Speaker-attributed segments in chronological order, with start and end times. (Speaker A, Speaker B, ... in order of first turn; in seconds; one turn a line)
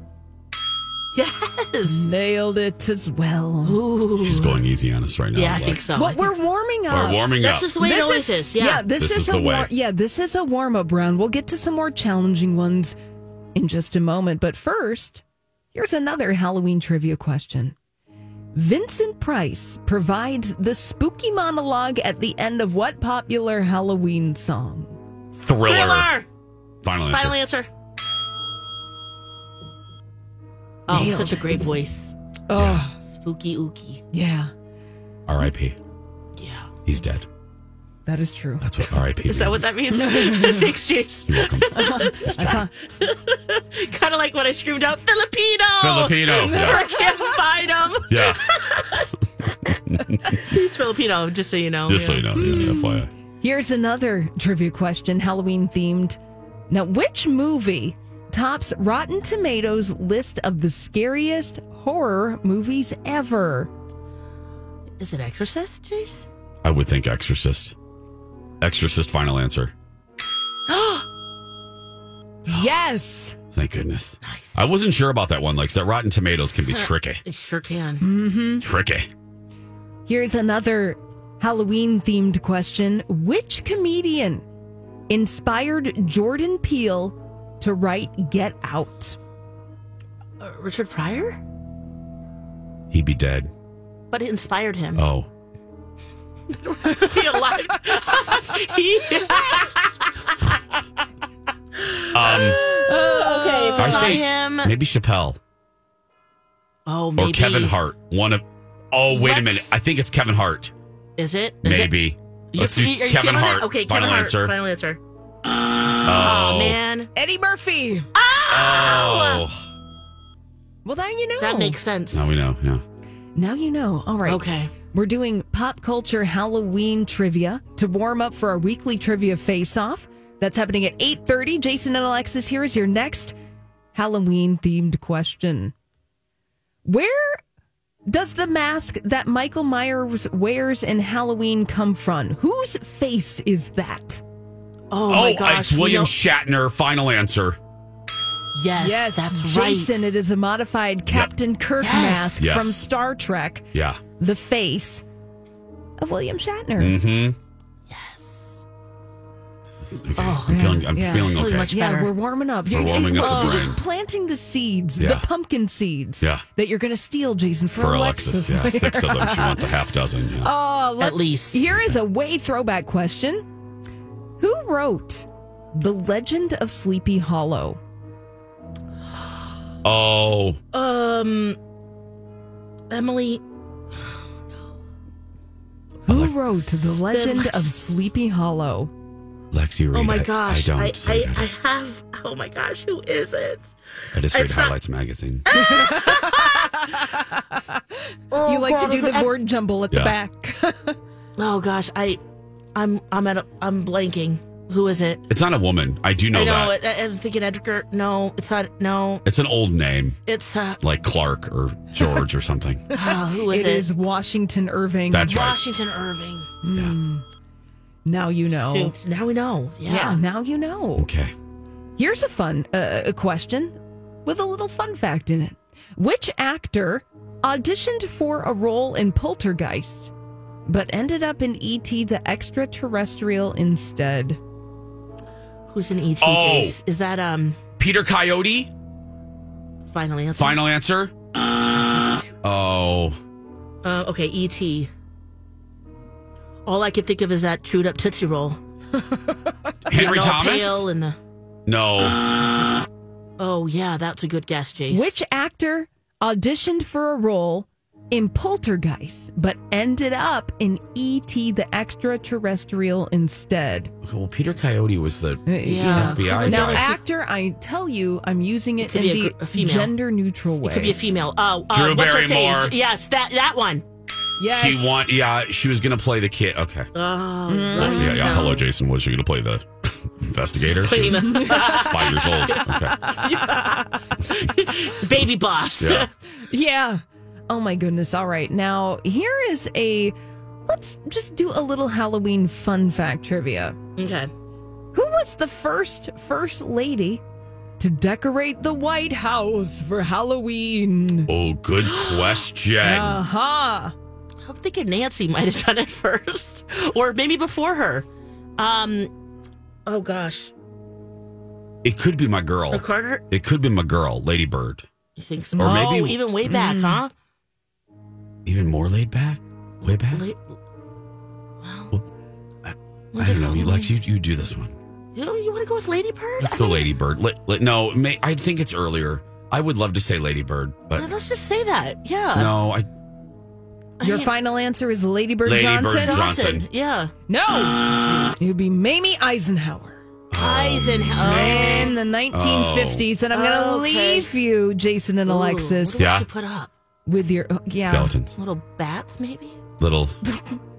Speaker A: 1.1-2.2
Speaker B: 1.9-3.8
Speaker A: 3.6-4.6
Speaker C: 4.2-5.8
Speaker A: 5.3-6.3
Speaker B: 6.0-7.3
Speaker C: 6.9-7.7
Speaker A: 7.4-8.9
Speaker B: 7.8-13.0
Speaker C: 9.0-9.7
Speaker B: 13.6-15.2
Speaker B: 15.7-17.8
Speaker B: 18.5-25.0
Speaker C: 25.4-26.1
Speaker A: 25.6-26.3
Speaker C: 26.8-27.4
Speaker A: 27.1-27.7
Speaker A: 30.9-32.1
Speaker B: 30.9-31.6
Speaker B: 32.5-33.0
Speaker C: 32.6-32.8
Speaker A: 33.0-34.0
Speaker B: 34.1-34.5
Speaker C: 35.3-35.8
Speaker A: 36.4-36.7
Speaker C: 36.9-37.3
Speaker B: 38.1-38.6
Speaker C: 38.6-39.7
Speaker A: 39.2-49.1
Speaker B: 39.9-40.7
Speaker C: 41.3-42.6
Speaker B: 41.7-42.7
Speaker C: 45.8-46.9
Speaker B: 46.5-47.4
Speaker C: 48.1-48.5
Speaker A: 49.7-52.6
Speaker C: 49.9-50.4
Speaker C: 51.9-53.1
Speaker B: 52.4-56.2
Speaker B: 56.7-63.7
Speaker A: 65.0-66.3
Speaker C: 66.6-67.8
Speaker C: 68.6-69.7
Speaker A: 70.7-71.1
Speaker B: 72.5-73.4
Speaker C: 73.5-77.2
Speaker A: 74.2-74.6
Speaker A: 76.7-78.0
Speaker B: 78.0-78.6
Speaker C: 78.6-79.1
Speaker B: 80.1-84.4
Speaker B: 85.1-89.2
Speaker A: 90.4-91.4
Speaker C: 92.9-93.5
Speaker A: 94.1-95.0
Speaker C: 95.0-95.3
Speaker A: 96.5-100.6
Speaker A: 101.8-104.7
Speaker C: 102.1-102.6
Speaker B: 102.8-104.2
Speaker C: 103.8-105.4
Speaker A: 106.9-107.8
Speaker C: 107.2-110.7
Speaker A: 109.1-109.7
Speaker A: 111.2-112.0
Speaker C: 111.6-114.5
Speaker A: 112.5-115.0
Speaker C: 116.0-116.8
Speaker A: 116.1-117.1
Speaker B: 117.2-118.1
Speaker A: 118.2-119.5
Speaker C: 118.5-119.6
Speaker B: 120.8-121.8
Speaker A: 121.4-122.3
Speaker C: 122.1-122.8
Speaker B: 123.4-133.3
Speaker A: 124.3-124.7
Speaker B: 133.9-135.7
Speaker B: 136.8-137.4
Speaker B: 138.1-144.2
Speaker A: 144.9-146.1
Speaker C: 145.1-147.6
Speaker A: 148.5-150.2
Speaker B: 148.8-153.7
Speaker A: 151.8-152.4
Speaker C: 152.4-152.8
Speaker C: 153.7-154.0
Speaker B: 154.2-155.0
Speaker B: 156.0-157.0
Speaker C: 156.8-157.4
Speaker A: 157.9-158.6
Speaker C: 159.7-161.8
Speaker A: 160.2-162.1
Speaker B: 160.5-169.7
Speaker C: 162.7-163.8
Speaker A: 163.2-163.7
Speaker C: 165.0-165.3
Speaker C: 167.8-170.5
Speaker B: 170.4-173.4
Speaker A: 171.0-171.6
Speaker C: 171.7-172.0
Speaker B: 174.4-177.8
Speaker C: 179.8-180.6
Speaker A: 180.7-181.6
Speaker A: 182.9-183.4
Speaker C: 186.1-186.4
Speaker B: 186.1-188.9
Speaker A: 187.1-187.7
Speaker C: 189.5-191.5
Speaker A: 189.9-194.8
Speaker C: 194.1-195.5
Speaker A: 195.5-196.8
Speaker B: 195.5-197.8
Speaker A: 198.3-199.3
Speaker B: 198.4-201.0
Speaker C: 199.9-200.2
Speaker A: 201.4-202.2
Speaker A: 202.8-205.2
Speaker C: 205.3-206.8
Speaker A: 206.3-209.2
Speaker C: 209.2-210.2
Speaker A: 210.3-210.8
Speaker C: 210.8-212.9
Speaker A: 212.9-213.9
Speaker B: 212.9-215.4
Speaker C: 215.1-215.6
Speaker A: 215.2-216.5
Speaker B: 216.6-217.2
Speaker B: 218.1-218.9
Speaker A: 218.7-220.2
Speaker B: 219.9-221.1
Speaker C: 221.0-221.3
Speaker B: 222.0-230.1
Speaker B: 230.7-234.4
Speaker A: 235.7-237.6
Speaker C: 236.2-236.8
Speaker C: 237.8-238.7
Speaker A: 239.9-240.6
Speaker C: 240.4-241.1
Speaker C: 242.4-243.2
Speaker A: 243.8-244.9
Speaker A: 246.7-248.6
Speaker C: 249.9-250.8
Speaker A: 249.9-251.2
Speaker C: 251.7-252.2
Speaker A: 253.4-255.1
Speaker B: 254.9-263.9
Speaker C: 264.0-266.9
Speaker B: 265.5-271.0
Speaker A: 265.6-266.9
Speaker A: 268.8-269.9
Speaker A: 270.6-273.8
Speaker C: 271.7-272.7
Speaker B: 274.4-275.1
Speaker C: 274.5-276.9
Speaker A: 276.9-278.6
Speaker B: 277.5-278.6
Speaker C: 277.8-283.1
Speaker A: 280.7-286.1
Speaker B: 281.1-284.1
Speaker C: 285.8-286.1
Speaker B: 286.5-290.2
Speaker B: 290.7-293.8
Speaker A: 294.0-294.3
Speaker B: 294.9-297.2
Speaker B: 297.8-301.3
Speaker C: 301.3-303.2
Speaker A: 301.9-302.4
Speaker B: 302.8-303.9
Speaker A: 304.4-308.1
Speaker A: 308.6-309.1
Speaker A: 309.9-310.5
Speaker C: 311.8-314.9
Speaker A: 312.7-313.2
Speaker A: 315.2-317.1
Speaker C: 315.6-316.2
Speaker B: 316.5-317.0
Speaker C: 318.5-320.2
Speaker A: 320.1-320.4
Speaker A: 321.6-321.9
Speaker C: 322.6-324.8
Speaker A: 323.1-323.9
Speaker A: 325.1-326.9
Speaker C: 326.4-331.1
Speaker A: 330.9-332.5
Speaker C: 332.3-332.9
Speaker A: 334.0-334.3
Speaker B: 334.0-336.2
Speaker C: 335.4-336.7
Speaker A: 336.0-337.1
Speaker B: 337.3-340.0
Speaker A: 338.0-338.4
Speaker C: 340.3-343.1
Speaker A: 340.3-342.0
Speaker B: 341.2-346.0
Speaker A: 343.3-344.3
Speaker A: 345.3-346.7
Speaker C: 346.0-346.3
Speaker B: 347.1-348.1
Speaker C: 347.9-348.4
Speaker A: 348.4-349.6
Speaker C: 349.8-350.2